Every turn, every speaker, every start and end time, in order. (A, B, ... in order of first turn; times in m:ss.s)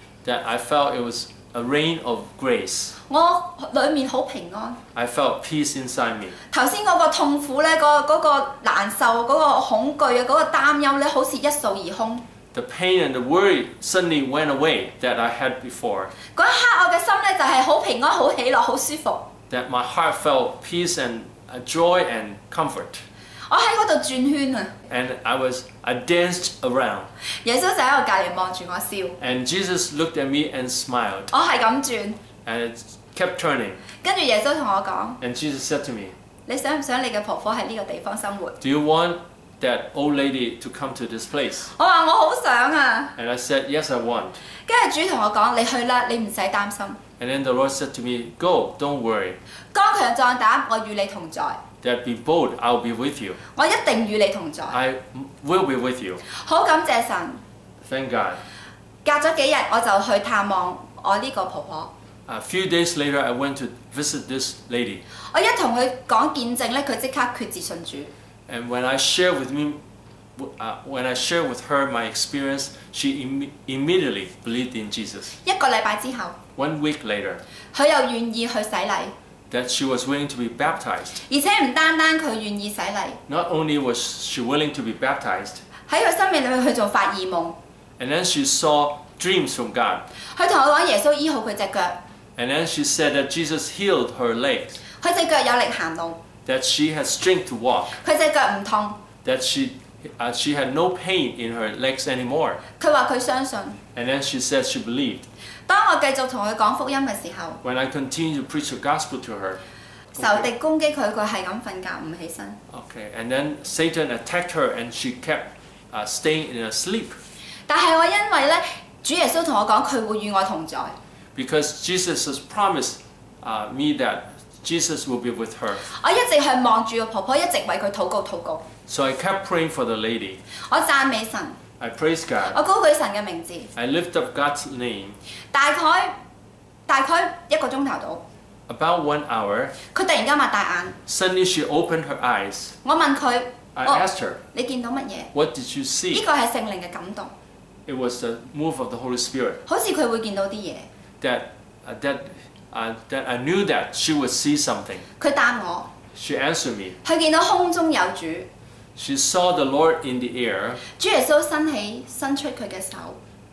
0:00.2-0:03.0 A
0:03.0-0:04.8 B
0:04.9-0:06.4 A
0:06.5-0:12.2 B
0:12.5-0:16.1 A
0:16.3-0:19.3 B
0:19.5-0:23.0 A
0:23.5-0:24.8 B
0:24.9-0:27.1 A
0:27.4-0:29.2 B
0:29.2-0:31.3 A
0:31.3-0:32.2 B
0:32.4-0:33.8 A
0:34.0-0:35.2 B
0:35.2-0:36.1 A
0:36.5-0:38.6 B
0:38.6-0:41.7 A
0:41.7-0:43.1 B
0:43.2-0:44.4 A
0:44.7-0:47.0 B
0:47.2-0:49.4 A
0:49.7-0:51.6 B
0:51.8-0:53.4 A
0:53.6-0:54.8 B
0:54.7-0:56.2 A
0:56.3-0:57.4 B
0:57.8-0:58.4 A
0:59.0-1:01.9 B
1:02.3-1:05.0 A
1:05.3-1:08.1 B
1:08.5-1:09.8 A
1:10.4-1:15.4 A
1:15.4-1:16.4 B
1:16.6-1:17.4 A
1:17.7-1:19.1 B
1:19.5-1:21.2 A
1:21.2-1:23.2 B
1:23.3-1:25.6 A
1:25.9-1:27.6 B
1:28.0-1:30.0 A
1:30.3-1:32.0 B
1:32.4-1:34.8 A
1:35.0-1:36.2 B
1:36.5-1:38.0 A
1:37.9-1:39.0 B
1:39.2-1:42.6 A
1:42.8-1:43.8 B
1:44.0-1:45.2 A
1:45.7-1:47.6 B
1:47.6-1:49.6 A
1:50.2-1:52.6 B
1:50.2-1:50.5 A
1:52.7-1:57.2 A
1:57.7-2:01.0 B
2:01.4-2:05.9 A
2:05.8-2:08.6 B
2:08.9-2:10.4 A
2:10.7-2:11.6 B
2:11.8-2:12.6 A
2:12.5-2:13.7 B
2:13.8-2:15.2 A
2:15.5-2:16.2 B
2:16.9-2:18.2 B
2:18.7-2:19.8 A
2:19.9-2:21.0 B
2:21.1-2:22.8 A
2:22.8-2:25.3 B
2:23.8-2:24.4 A
2:25.3-2:26.2 A
2:26.1-2:27.3 B
2:27.9-2:29.6 A
2:29.7-2:30.9 B
2:31.2-2:35.0 A
2:35.2-2:35.9 B
2:36.1-2:37.0 A
2:37.0-2:38.5 B
2:39.0-2:40.8 A
2:40.9-2:43.2 B